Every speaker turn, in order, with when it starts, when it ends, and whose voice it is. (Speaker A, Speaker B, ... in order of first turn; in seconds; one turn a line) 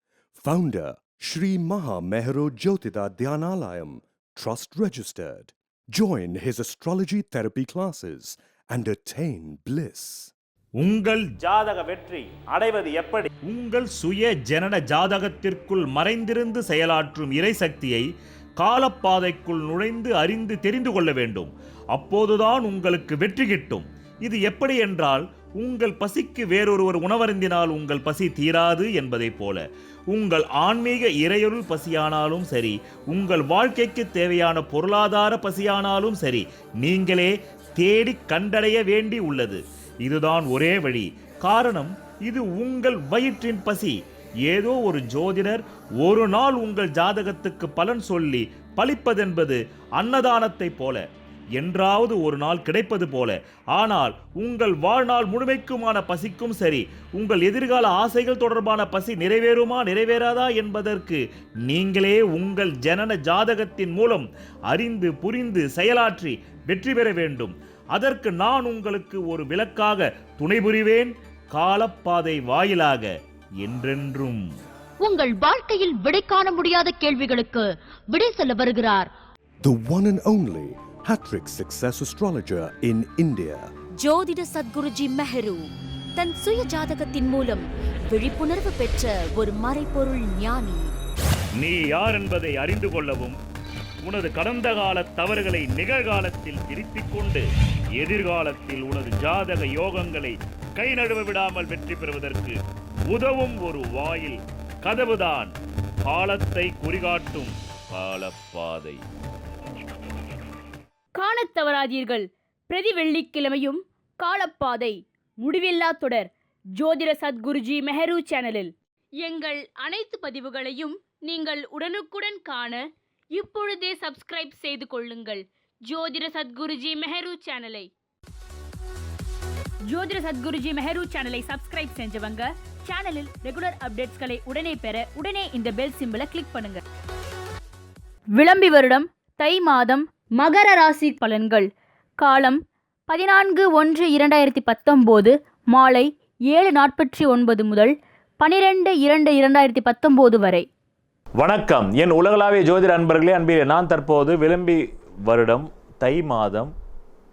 Speaker A: 0.3-10.3
Speaker B: 10.8-51.0
Speaker B: 51.6-73.1
Speaker B: 73.6-74.5
Speaker C: 75.0-79.1
Speaker A: 79.6-83.7
Speaker C: 84.0-91.0
Speaker B: 91.6-93.4
Speaker B: 94.0-109.0
Speaker D: 111.2-127.9
Speaker D: 129.9-136.8
Speaker D: 138.4-142.6
Speaker D: 143.1-150.7
Speaker E: 151.4-156.7